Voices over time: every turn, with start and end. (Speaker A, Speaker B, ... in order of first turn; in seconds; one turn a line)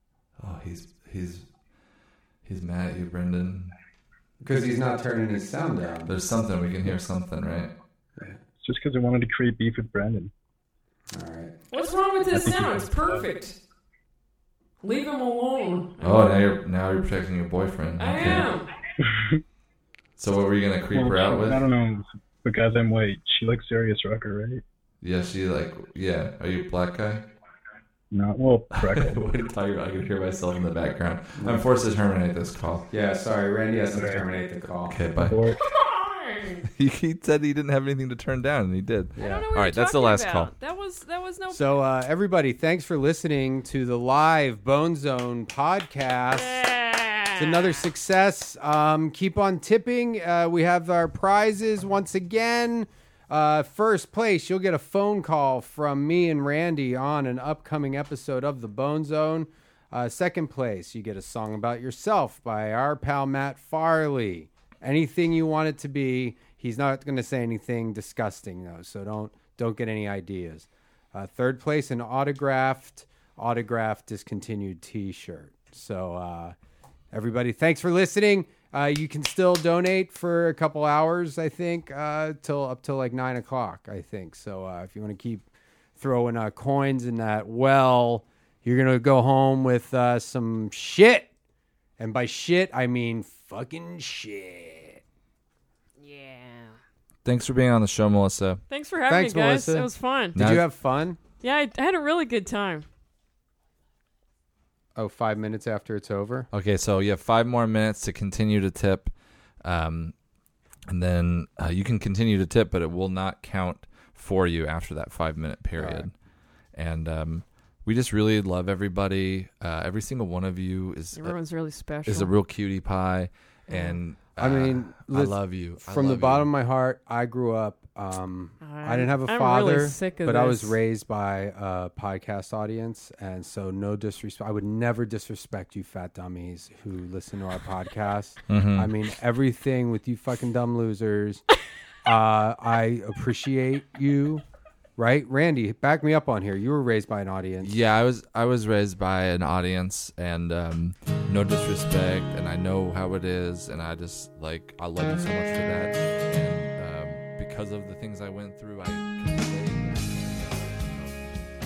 Speaker A: 0.4-1.4
Speaker A: 2.4-3.7
Speaker B: 4.4-6.1
Speaker A: 6.0-7.7
Speaker C: 8.6-10.3
Speaker B: 11.1-11.5
Speaker D: 11.7-13.5
Speaker C: 12.3-13.3
Speaker D: 14.8-16.3
Speaker A: 16.0-18.5
Speaker D: 18.0-18.7
Speaker C: 19.0-19.4
Speaker A: 20.2-21.6
Speaker C: 20.9-24.6
Speaker A: 25.0-27.2
Speaker C: 28.1-29.2
Speaker A: 28.7-32.9
Speaker B: 31.4-31.6
Speaker B: 32.9-35.0
Speaker C: 33.9-34.3
Speaker A: 34.9-35.4
Speaker C: 35.1-35.6
Speaker D: 35.6-36.6
Speaker A: 36.7-40.5
Speaker B: 39.2-39.4
Speaker D: 39.2-41.8
Speaker B: 41.5-46.6
Speaker D: 46.3-47.8
Speaker B: 47.3-76.5
Speaker B: 77.1-85.4
Speaker B: 86.0-91.3
Speaker B: 92.0-95.0
Speaker D: 96.0-96.8
Speaker A: 97.2-98.6
Speaker D: 98.7-100.3
Speaker B: 99.1-101.2
Speaker A: 100.3-100.7
Speaker D: 101.4-102.8
Speaker B: 105.0-106.5
Speaker A: 106.5-109.1
Speaker A: 109.6-110.1
Speaker A: 110.9-116.1
Speaker B: 115.8-116.1
Speaker A: 116.7-121.3
Speaker D: 121.2-122.3
Speaker A: 122.0-126.5
Speaker D: 123.7-124.0
Speaker B: 124.3-141.4
Speaker D: 128.6-130.8
Speaker A: 138.5-138.9
Speaker B: 142.0-144.4
Speaker B: 145.0-147.8
Speaker A: 147.6-161.3